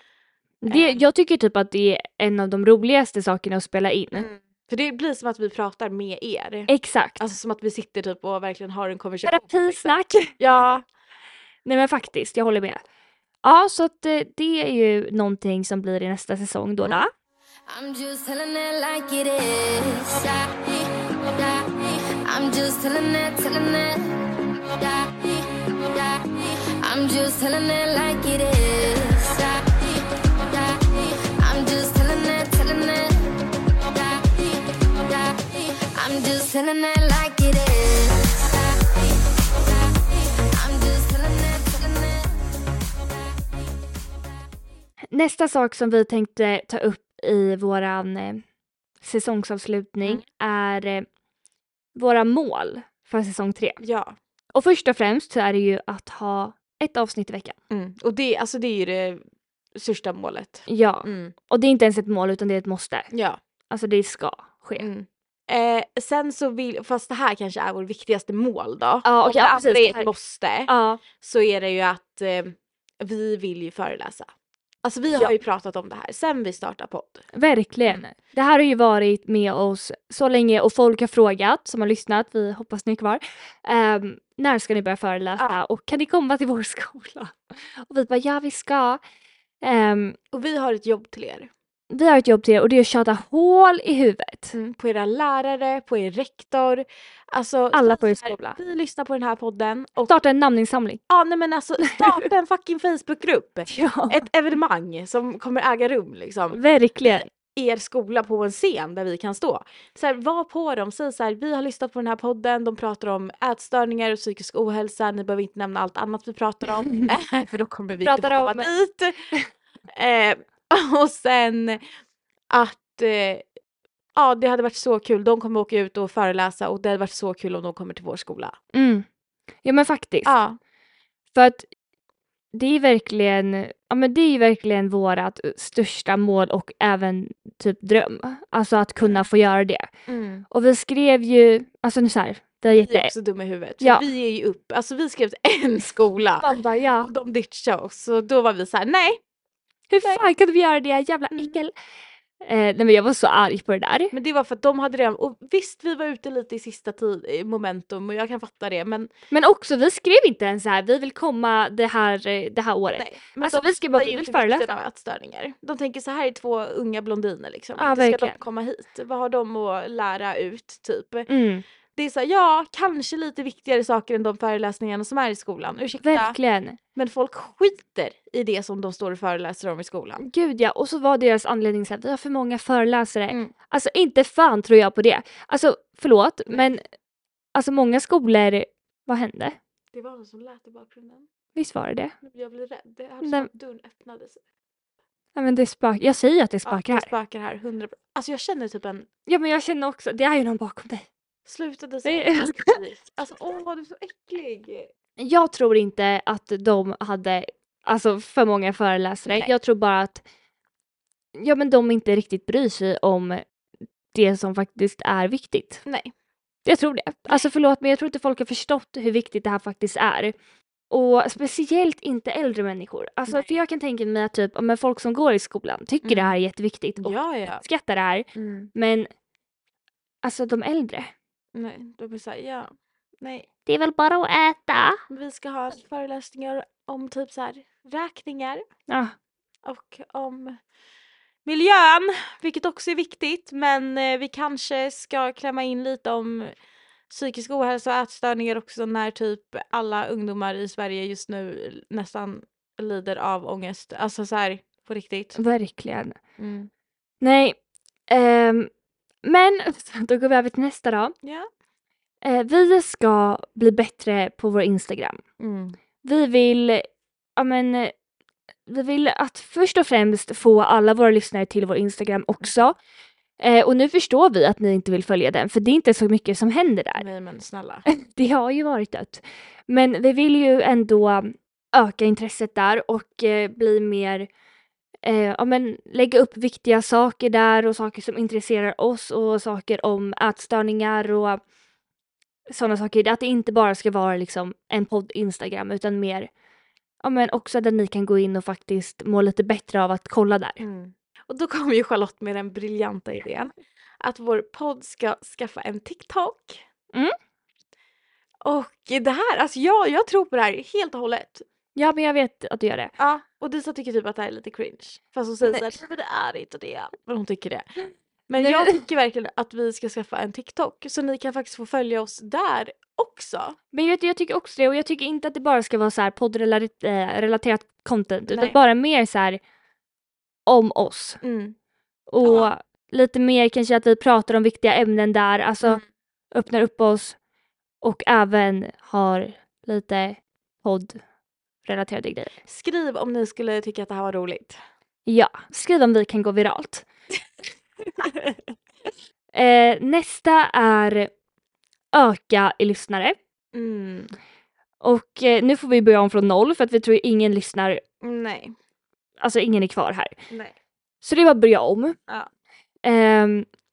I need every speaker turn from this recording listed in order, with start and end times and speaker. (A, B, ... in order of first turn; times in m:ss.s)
0:00.6-0:04.3 A
0:00.7-0:01.0 B
0:04.1-0:10.8 B
0:06.7-0:07.2 A
0:09.2-0:10.3 A
0:11.6-0:12.8 A
0:13.4-0:17.1 A
0:17.7-0:42.4 C
0:45.1-0:48.4 A
0:49.0-0:51.0 A
0:51.9-0:53.8 A
0:53.8-0:54.2 B
0:54.5-0:57.6 A
0:57.7-0:59.2 B
0:59.7-1:01.3 B
1:00.7-1:03.1 A
1:03.1-1:03.4 B
1:03.7-1:04.9 A
1:04.8-1:14.3 B
1:09.0-1:10.1 A
1:10.7-1:11.0 A
1:14.8-1:17.2 B
1:17.3-1:29.0 A
1:29.6-1:30.2 A
1:30.3-1:31.5 B
1:31.9-1:34.6 A
1:34.5-1:40.1 B
1:37.7-1:38.6 A
1:40.1-1:41.0 A
1:41.1-1:59.2 B
1:43.7-1:44.2 A
1:46.5-1:47.3 A
1:58.0-1:58.7 A
1:59.9-2:01.8 B
2:02.5-2:03.5 B
2:04.2-2:08.6 B
2:08.7-2:09.0 A
2:09.6-2:10.3 A
2:10.2-2:10.6 B
2:11.3-2:11.7 A
2:12.5-2:19.9 A
2:20.1-2:20.4 B
2:20.5-2:23.1 A
2:22.7-2:26.5 B
2:26.4-2:27.1 A
2:27.0-2:29.2 B
2:29.9-2:31.7 A
2:32.4-2:34.1 A
2:34.1-2:39.1 B
2:39.3-2:44.7 A
2:43.0-2:51.3 B
2:47.8-2:48.4 A
2:51.3-2:51.6 A
2:52.0-2:56.4 B
2:56.0-2:56.8 A
2:56.9-3:00.2 B
3:00.2-3:06.8 A
3:07.5-3:09.6 A
3:09.9-3:11.3 B
3:11.5-3:12.1 A
3:12.2-3:14.4 B
3:13.2-3:13.5 A
3:15.4-3:17.1 A
3:16.6-3:19.1 B
3:19.3-3:21.0 A
3:21.4-3:24.9 B
3:22.0-3:22.8 A
3:25.2-3:30.2 A
3:31.4-3:33.4 A
3:34.1-3:35.8 A
3:35.8-3:36.1 B
3:36.6-3:40.3 A
3:40.9-3:49.1 A
3:46.0-3:46.4 B
3:47.0-3:47.6 B
3:48.3-3:48.7 B
3:50.2-3:51.1 A
3:51.5-3:52.7 B
3:53.2-3:53.5 B
3:53.6-3:55.0 A
3:55.1-3:58.6 B
3:58.9-3:59.1 A
3:59.6-4:00.6 B
4:01.4-4:06.5 B
4:07.1-4:15.4 B
4:15.4-4:16.2 A
4:16.4-4:16.7 B
4:17.2-4:17.6 A
4:18.1-4:18.7 A
4:19.2-4:21.1 A
4:21.2-4:21.5 B
4:22.2-4:25.2 A
4:25.4-4:25.8 B
4:26.0-4:27.9 A
4:28.7-4:32.8 A
4:33.4-4:37.0 A
4:37.0-4:37.8 B
4:37.9-4:44.3 A
4:45.0-4:51.4 A
4:52.5-4:56.3 A
4:57.0-5:00.6 A
5:00.6-5:06.6 B
5:08.4-5:11.4 B
5:11.7-5:12.9 A
5:13.0-5:17.7 B
5:18.3-5:23.6 B
5:18.4-5:18.8 A
5:23.7-5:29.4 A
5:28.3-5:28.6 B
5:30.5-5:31.2 A
5:31.2-5:31.6 B
5:32.1-5:35.8 A
5:32.2-5:32.5 B
5:36.3-5:37.2 A
5:37.8-5:41.0 A
5:41.6-5:42.3 A
5:42.4-5:44.6 B
5:45.0-5:46.8 A
5:49.3-5:51.1 A
5:51.9-5:53.2 A
5:53.5-5:54.1 B
5:54.8-5:57.8 A
5:58.0-5:58.6 B
5:59.2-6:00.1 A
6:01.0-6:02.0 A
6:02.8-6:03.5 A